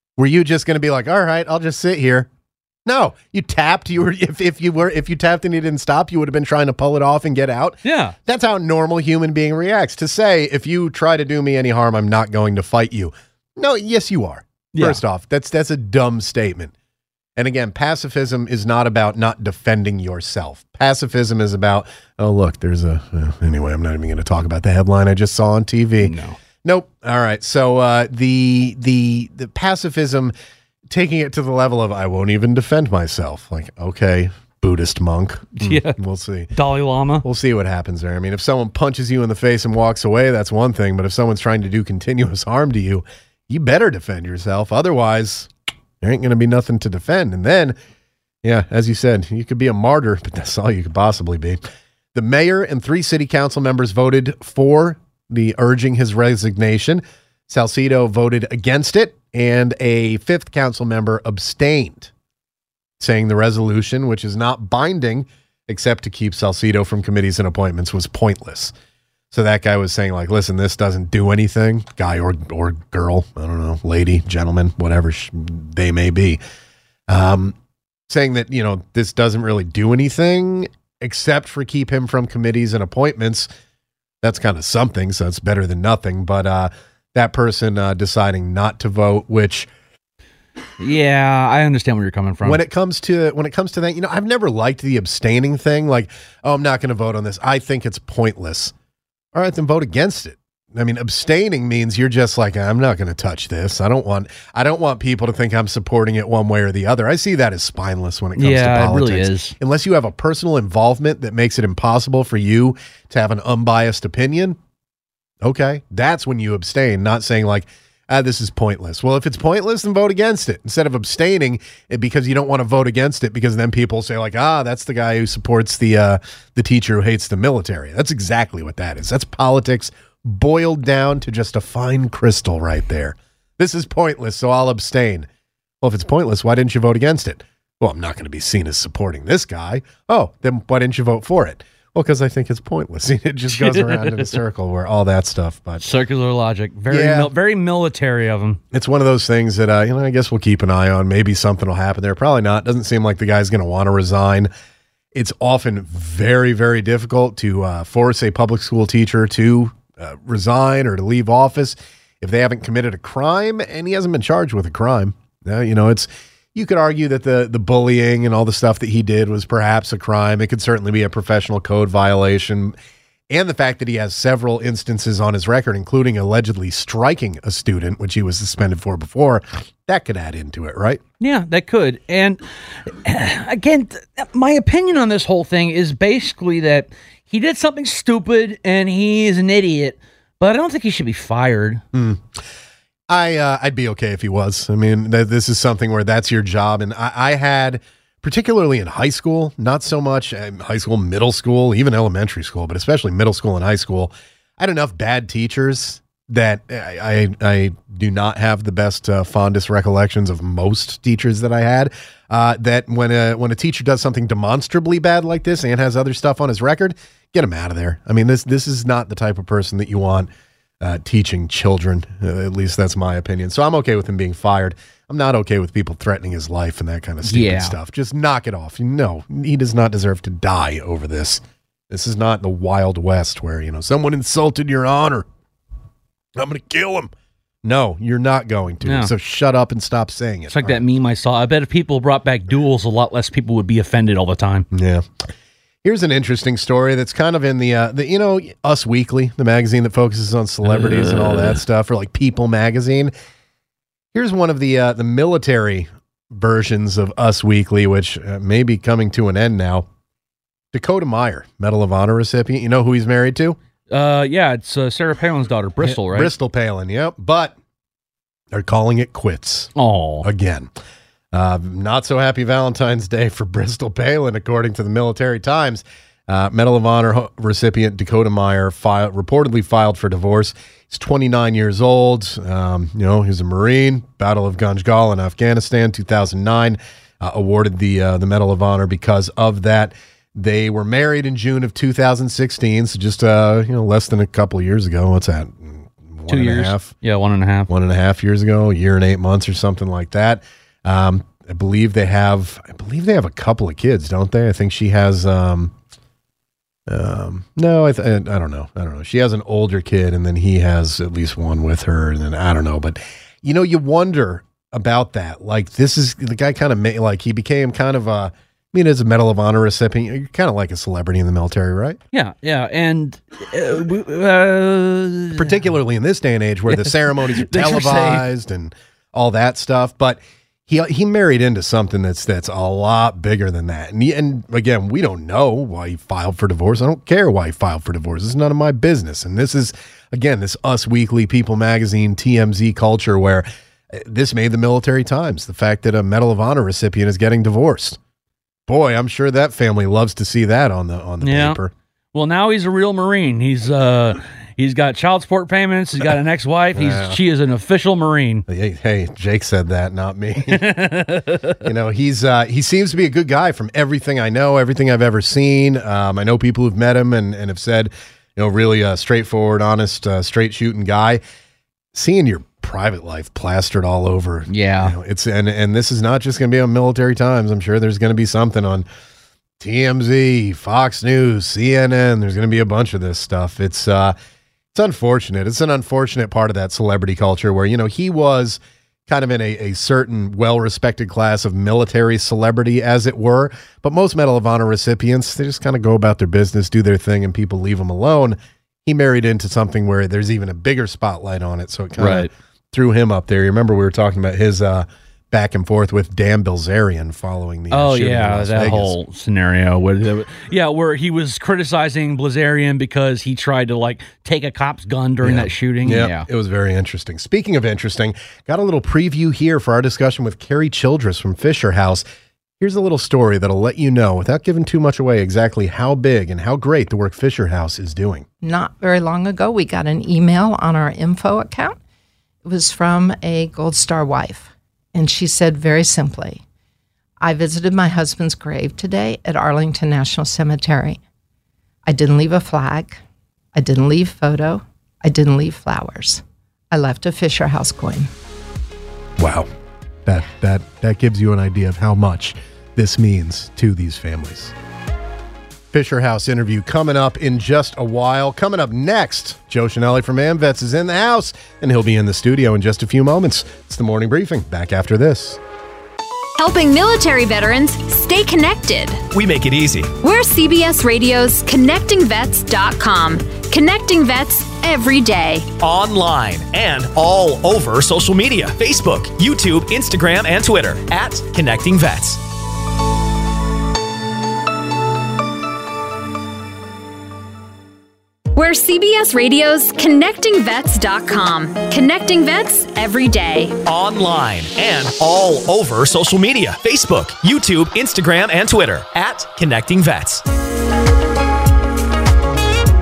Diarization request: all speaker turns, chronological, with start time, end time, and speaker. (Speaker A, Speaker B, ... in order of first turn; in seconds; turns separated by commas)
Speaker A: 0.2-2.3, Speaker A: 2.9-16.7, Speaker B: 7.8-8.1, Speaker B: 14.7-15.0, Speaker A: 17.4-30.3, Speaker B: 26.0-26.4, Speaker A: 30.9-36.5, Speaker B: 35.6-36.0, Speaker B: 36.5-37.2, Speaker A: 37.2-45.5, Speaker A: 46.0-47.8, Speaker A: 48.4-51.6, Speaker A: 52.1-62.1, Speaker A: 63.0-68.7, Speaker A: 69.3-76.4, Speaker A: 77.1-77.5, Speaker A: 78.1-83.5, Speaker A: 84.2-89.7, Speaker B: 90.8-92.6, Speaker A: 92.4-98.7, Speaker A: 99.3-114.6, Speaker B: 108.4-109.5, Speaker A: 115.4-135.3, Speaker A: 135.8-145.8, Speaker B: 143.5-144.4, Speaker B: 145.8-148.6, Speaker A: 146.9-147.3, Speaker A: 148.7-154.5, Speaker A: 155.1-172.7, Speaker A: 173.3-181.0, Speaker B: 181.2-191.8, Speaker A: 191.9-192.4, Speaker A: 193.1-235.3, Speaker B: 227.2-227.8, Speaker A: 236.3-237.1, Speaker A: 237.6-240.8, Speaker B: 238.8-239.1, Speaker B: 240.5-244.7, Speaker A: 244.7-245.3, Speaker A: 245.8-253.1, Speaker B: 250.6-251.6, Speaker A: 254.1-259.9, Speaker A: 260.7-263.6, Speaker B: 263.9-266.3, Speaker A: 265.8-267.5, Speaker A: 268.5-269.7, Speaker B: 269.8-270.3, Speaker A: 270.2-270.7, Speaker A: 271.3-296.9, Speaker B: 296.3-297.7, Speaker A: 297.7-305.7, Speaker A: 306.9-322.0, Speaker B: 322.1-325.6, Speaker A: 325.3-348.0, Speaker B: 326.7-328.2, Speaker A: 348.7-351.7, Speaker B: 351.2-351.6, Speaker B: 352.1-358.4, Speaker A: 356.7-357.2, Speaker A: 358.5-360.8, Speaker B: 360.4-361.6, Speaker A: 361.6-371.2, Speaker A: 371.9-378.9, Speaker B: 374.5-374.9, Speaker A: 379.6-384.1, Speaker A: 384.7-408.9, Speaker B: 402.0-402.3, Speaker B: 407.7-416.3, Speaker A: 415.2-422.0, Speaker A: 422.6-428.2, Speaker C: 428.4-431.8, Speaker C: 432.4-436.4, Speaker C: 437.2-441.0, Speaker C: 441.9-443.0, Speaker C: 443.5-448.1, Speaker A: 449.2-449.5, Speaker A: 450.1-454.5, Speaker A: 455.7-465.4, Speaker D: 466.4-469.0, Speaker E: 469.1-469.9, Speaker D: 470.0-475.5, Speaker E: 475.6-482.2, Speaker D: 488.3-493.6, Speaker E: 493.6-500.2